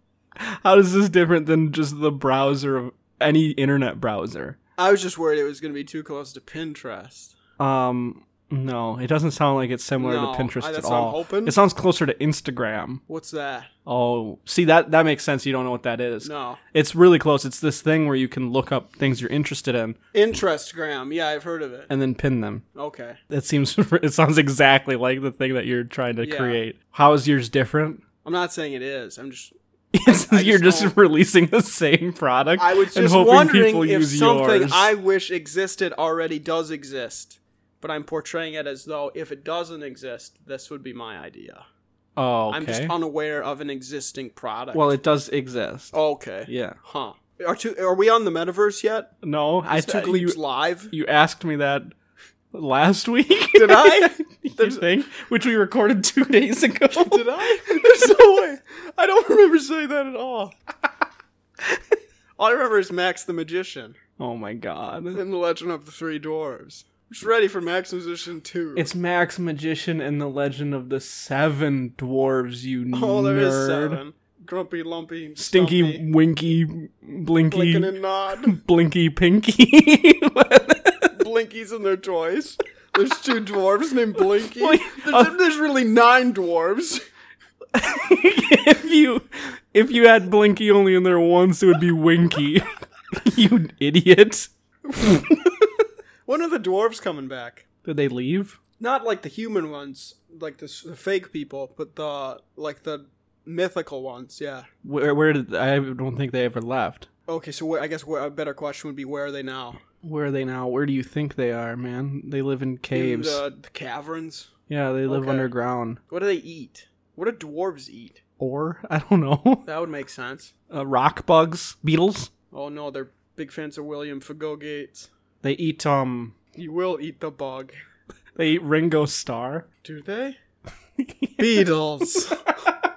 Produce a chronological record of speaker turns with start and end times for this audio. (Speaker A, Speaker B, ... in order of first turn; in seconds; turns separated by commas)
Speaker A: 0.4-4.5, Speaker B: 4.8-7.3, Speaker A: 7.6-13.0, Speaker B: 10.0-11.6, Speaker B: 13.1-13.7, Speaker A: 13.8-20.0, Speaker B: 16.2-16.6, Speaker B: 20.1-21.9, Speaker A: 21.9-22.6, Speaker B: 22.7-23.2, Speaker A: 23.3-28.0, Speaker B: 26.2-26.6, Speaker B: 28.2-29.5, Speaker A: 29.9-34.9, Speaker B: 30.0-30.9, Speaker B: 32.6-41.6, Speaker A: 42.1-42.9, Speaker B: 42.5-44.9, Speaker A: 44.7-45.9, Speaker B: 45.9-49.1, Speaker A: 46.5-46.8, Speaker A: 49.2-50.4, Speaker B: 49.7-50.9, Speaker A: 50.9-51.9, Speaker A: 52.5-57.2, Speaker B: 53.5-54.8, Speaker B: 56.9-60.5, Speaker B: 62.4-64.0, Speaker A: 64.2-65.2, Speaker B: 65.1-68.9, Speaker A: 68.8-74.0, Speaker B: 72.9-76.0, Speaker A: 75.4-77.9, Speaker B: 77.5-78.5, Speaker A: 78.5-81.1, Speaker B: 81.1-87.0, Speaker A: 84.3-85.4, Speaker A: 87.7-95.3, Speaker B: 94.9-95.5, Speaker B: 96.2-97.7, Speaker A: 97.8-98.6, Speaker B: 98.8-104.7, Speaker A: 104.8-107.1, Speaker B: 107.3-109.8, Speaker A: 110.0-113.4, Speaker B: 112.9-114.5, Speaker A: 114.7-116.0, Speaker B: 115.1-115.5, Speaker B: 116.1-118.2, Speaker A: 118.4-119.6, Speaker B: 119.7-120.5, Speaker A: 120.7-122.3, Speaker B: 122.5-125.1, Speaker A: 125.4-126.3, Speaker B: 126.5-127.7, Speaker A: 128.3-129.7, Speaker B: 129.8-130.4, Speaker A: 131.0-132.7, Speaker B: 131.4-132.4